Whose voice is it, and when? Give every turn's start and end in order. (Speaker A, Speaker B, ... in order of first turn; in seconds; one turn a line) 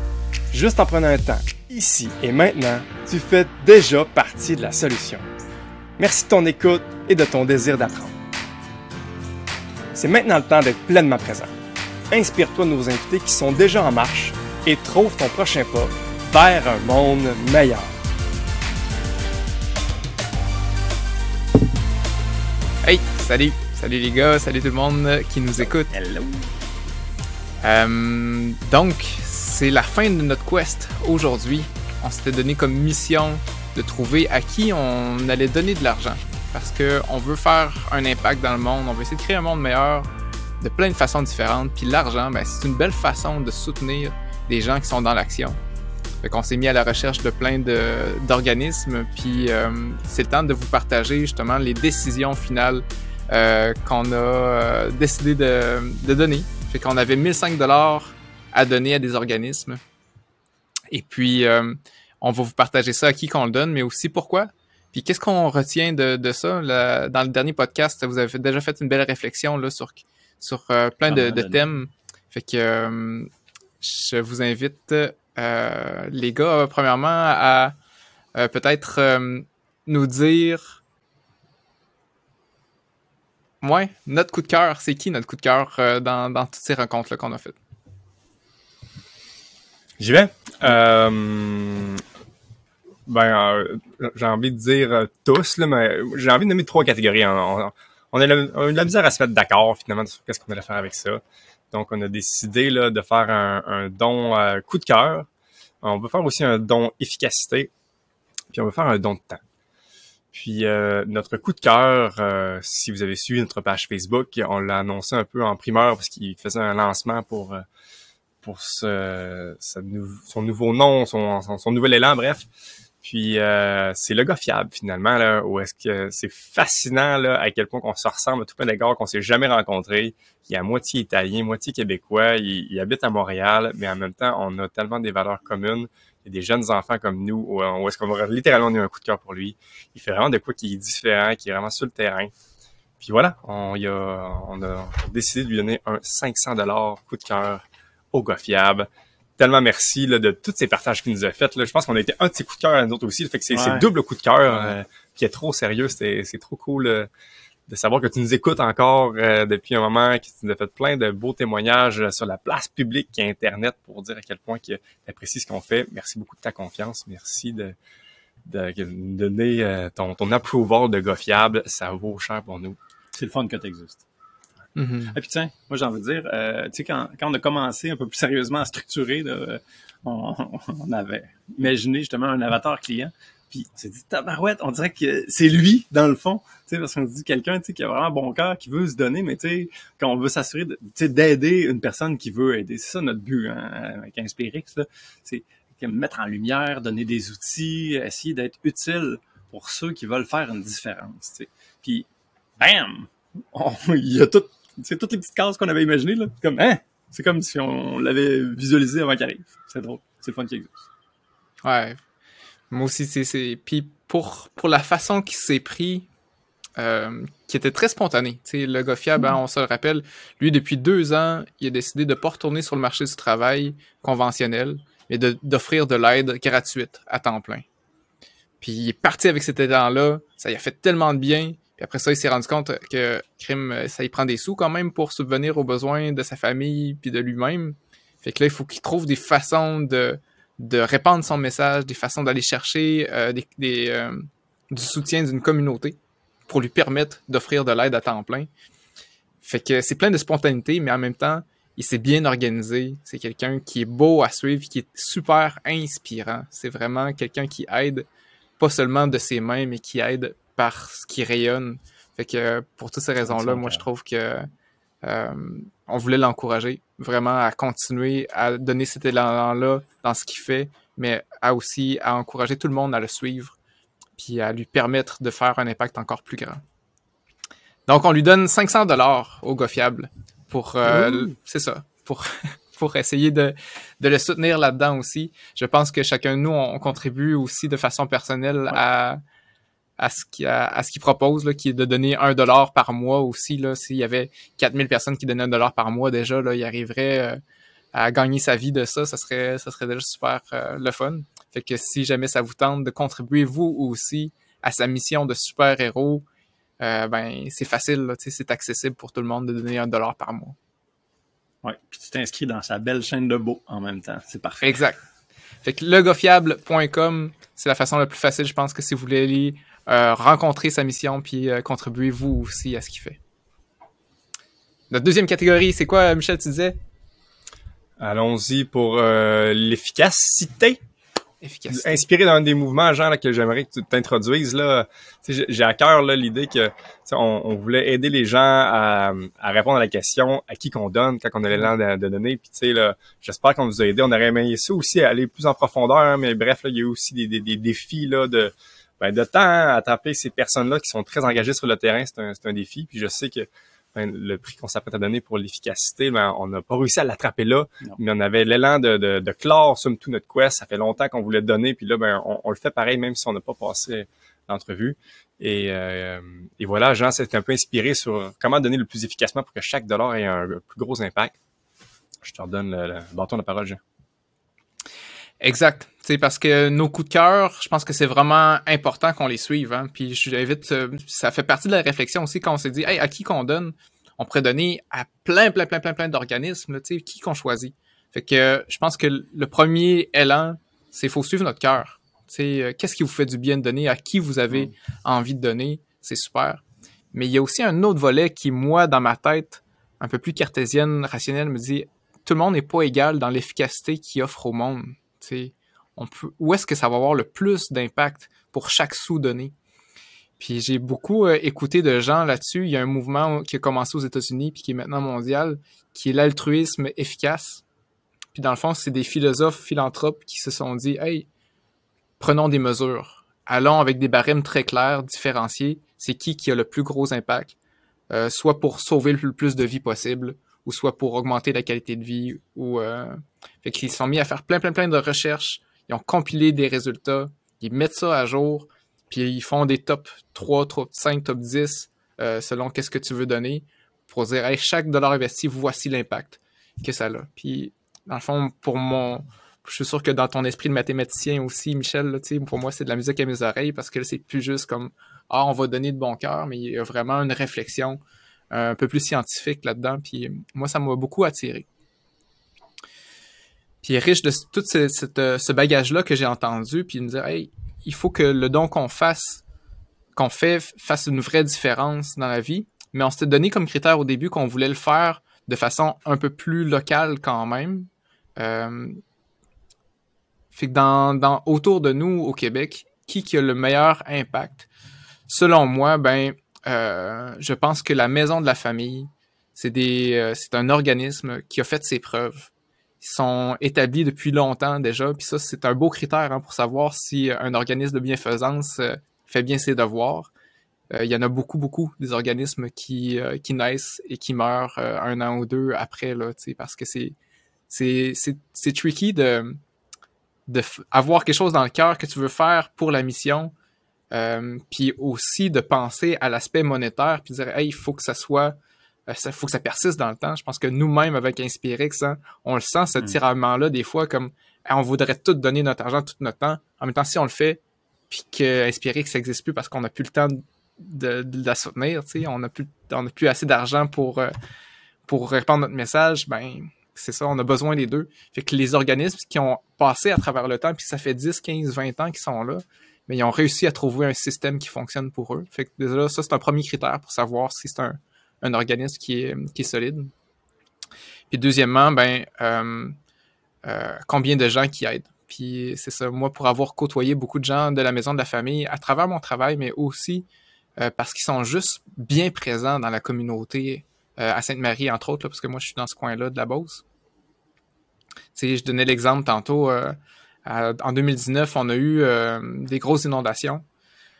Speaker A: 0.5-5.2
Speaker A: 6.0-8.1
Speaker A: 9.9-11.5
Speaker A: 12.1-17.9
Speaker B: 22.8-25.9
Speaker C: 25.6-26.4
Speaker B: 27.6-40.1
Speaker B: 40.6-45.6
Speaker B: 46.2-59.8
Speaker B: 60.9-73.3
Speaker C: 71.1-71.6
Speaker B: 73.8-77.8
Speaker B: 78.3-80.8
Speaker B: 83.6-87.5
Speaker A: 90.0-92.0
Speaker A: 93.1-101.2
Speaker A: 101.7-105.3
Speaker A: 105.8-107.7
Speaker A: 108.5-109.4
Speaker A: 110.3-117.6
Speaker A: 118.4-122.5
Speaker A: 123.0-142.3
Speaker A: 143.0-157.1
Speaker C: 153.5-153.9
Speaker C: 154.5-154.7
Speaker A: 157.7-167.8
Speaker A: 168.4-172.8
Speaker C: 173.1-174.0
Speaker B: 174.8-175.2
Speaker C: 175.1-202.1
Speaker C: 202.6-210.8
Speaker B: 211.6-212.0
Speaker B: 212.7-216.1
Speaker B: 216.8-227.6
Speaker B: 228.6-248.5
Speaker B: 249.4-258.1
Speaker B: 258.6-264.5
Speaker C: 263.2-263.8
Speaker B: 265.0-273.5
Speaker B: 274.1-276.6
Speaker B: 277.9-289.2
Speaker C: 280.8-281.3
Speaker B: 290.0-297.4
Speaker B: 297.9-306.2
Speaker B: 306.8-310.6
Speaker C: 311.6-314.8
Speaker B: 314.6-315.0
Speaker B: 315.6-323.2
Speaker B: 324.9-326.8
Speaker A: 328.0-330.8
Speaker B: 331.4-332.0
Speaker A: 331.7-371.3
Speaker A: 372.2-373.8
Speaker B: 375.4-409.5
Speaker B: 410.4-417.6
Speaker B: 418.3-421.3
Speaker B: 422.2-427.6
Speaker B: 428.1-458.0
Speaker B: 458.5-461.7
Speaker B: 463.8-469.4
Speaker B: 470.1-479.0
Speaker B: 480.5-484.7
Speaker B: 485.3-492.5
Speaker B: 493.0-500.3
Speaker B: 500.9-507.1
Speaker B: 507.7-509.6
Speaker B: 510.5-513.5
Speaker B: 514.1-518.5
Speaker B: 519.1-534.3
Speaker B: 535.0-550.1
Speaker B: 551.3-553.0
Speaker B: 553.6-560.3
Speaker B: 560.8-566.8
Speaker B: 568.3-573.6